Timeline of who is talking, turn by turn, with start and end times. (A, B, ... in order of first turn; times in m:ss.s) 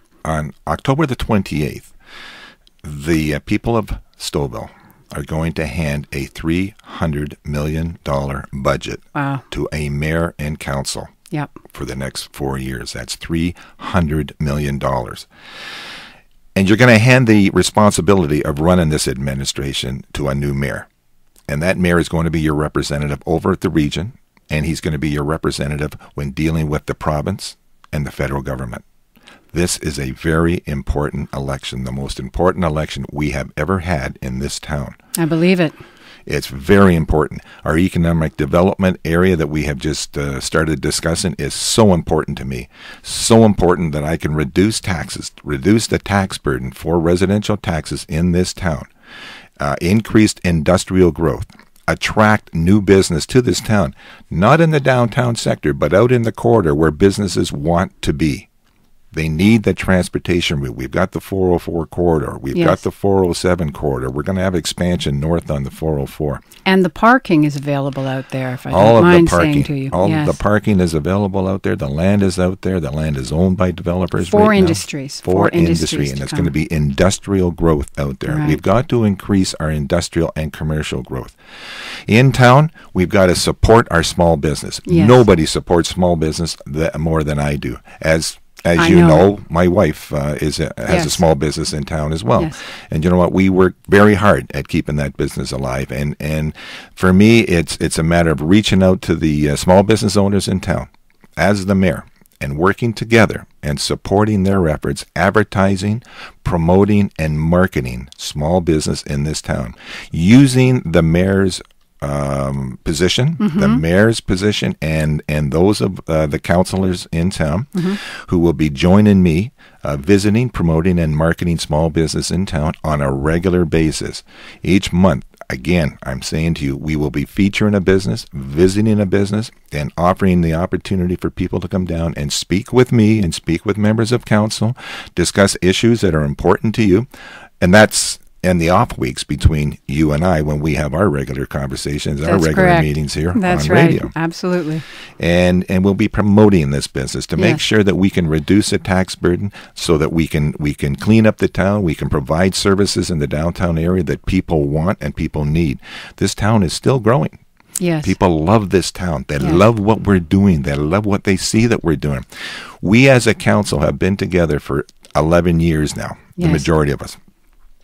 0:00.2-0:01.9 A
0:02.8-0:11.1 A
0:09.1-0:09.4 B
0:11.7-0:15.3 A
0:16.6-0:20.9 A
0:21.5-0:28.8 A
0:29.5-0:35.0 A
0:35.2-0:35.8 B
0:36.3-0:48.9 A
0:49.6-0:58.5 A
0:59.1-1:06.4 A
1:02.5-1:02.8 B
1:06.6-1:10.4 B
1:08.7-1:21.4 A
1:14.2-1:16.5 B
1:18.3-1:18.6 B
1:22.1-2:17.1 A
1:24.9-1:25.2 B
1:28.8-1:29.2 B
1:30.9-1:31.2 B
1:53.4-1:53.8 B
1:57.7-1:58.0 B
2:17.6-2:24.1 A
2:22.2-2:24.8 B
2:25.2-2:37.4 A
2:27.4-2:27.6 B
2:37.8-2:38.1 B
2:38.0-2:42.2 A
2:42.8-2:47.2 A
2:46.4-2:46.7 B